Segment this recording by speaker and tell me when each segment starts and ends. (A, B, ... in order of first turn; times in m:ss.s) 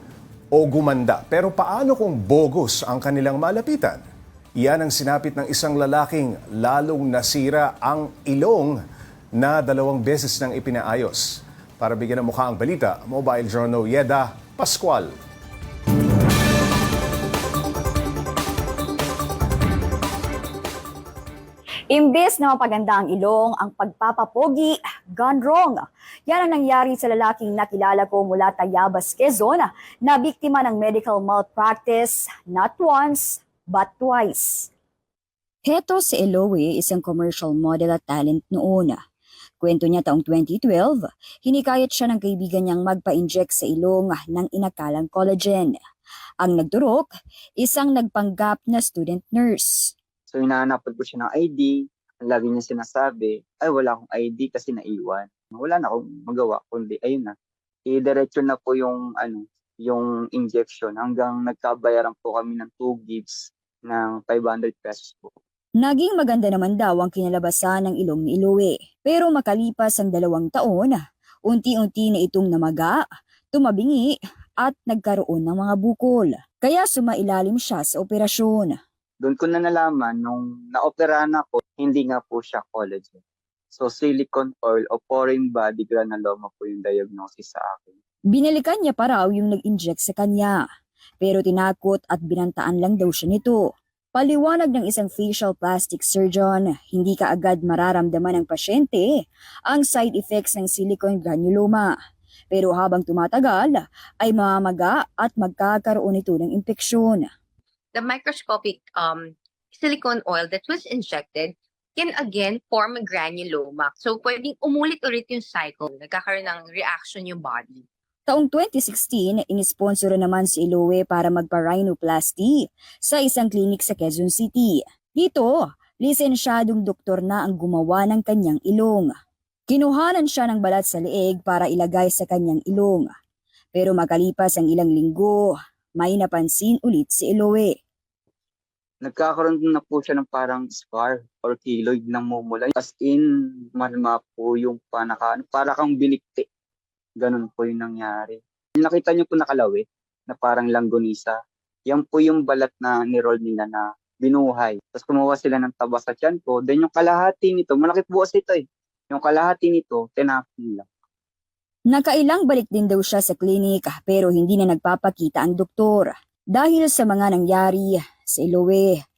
0:00.6-0:04.0 A
0:04.6-0:08.8 A
0:09.4-0:15.1 A
0:21.9-0:34.7 B
0:35.6-0:39.0 B
0:39.6-0:45.7 B
0:46.4-0:47.1 B
0:47.6-0:49.9 B
0:50.3-0:57.3 C
0:57.9-1:05.3 C
1:05.8-1:13.0 B
1:13.5-1:18.8 B
1:19.2-1:23.2 C
1:23.7-1:28.0 C
1:28.3-1:30.6 B
1:31.2-1:33.6 B
1:34.1-1:39.0 B
1:39.7-1:41.9 B
1:42.5-1:47.2 B
1:48.0-1:57.8 D
1:58.3-2:09.1 B
2:09.7-2:13.1 B
2:13.8-2:15.5 B
2:16.0-2:17.7 B
2:19.0-2:23.2 C
2:23.8-2:26.4 C
2:27.2-2:31.3 C
2:31.9-2:40.8 C
2:41.9-2:49.0 B